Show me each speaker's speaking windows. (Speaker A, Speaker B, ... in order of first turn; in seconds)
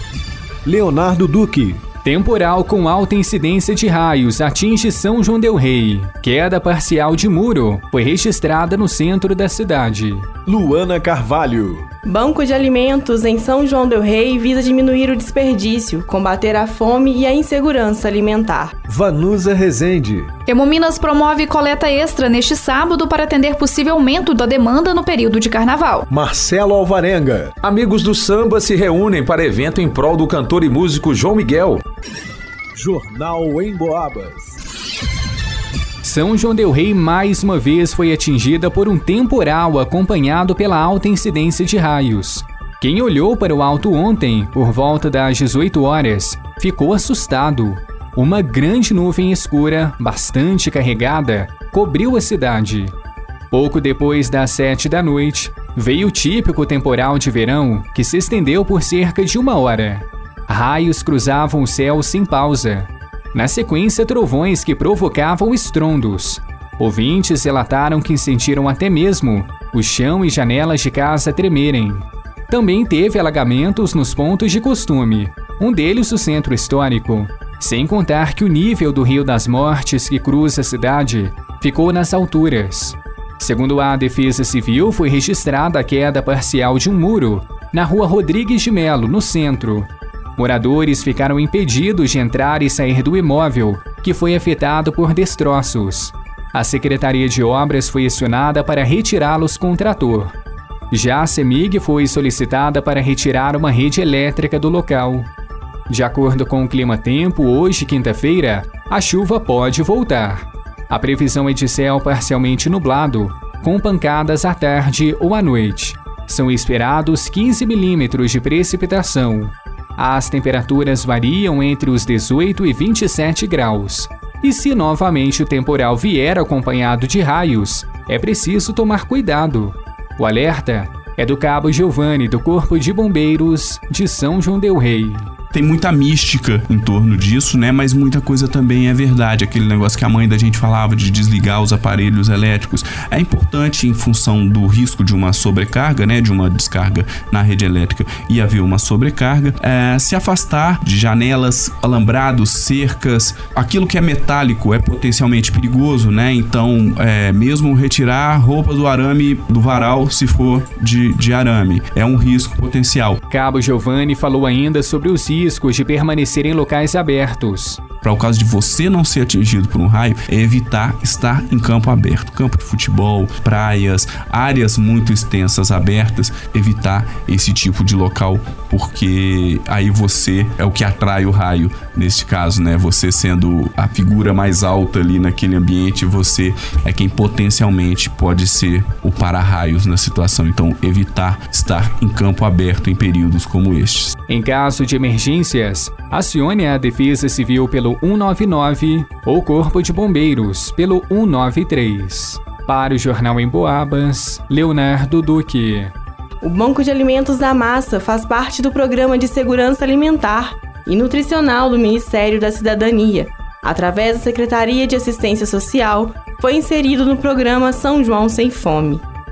Speaker A: 0.6-1.8, 10.4-11.8, 18.9-20.3, 26.1-27.5, 32.7-34.5
Speaker B: 2.0-10.3, 36.0-52.9, 53.5-100.3, 100.9-105.3, 105.9-135.3, 163.3-167.8, 194.3-205.9
Speaker C: 12.0-18.7, 206.4-219.0
Speaker D: 20.5-26.1
Speaker E: 27.6-31.8
Speaker F: 135.5-163.2, 168.0-194.1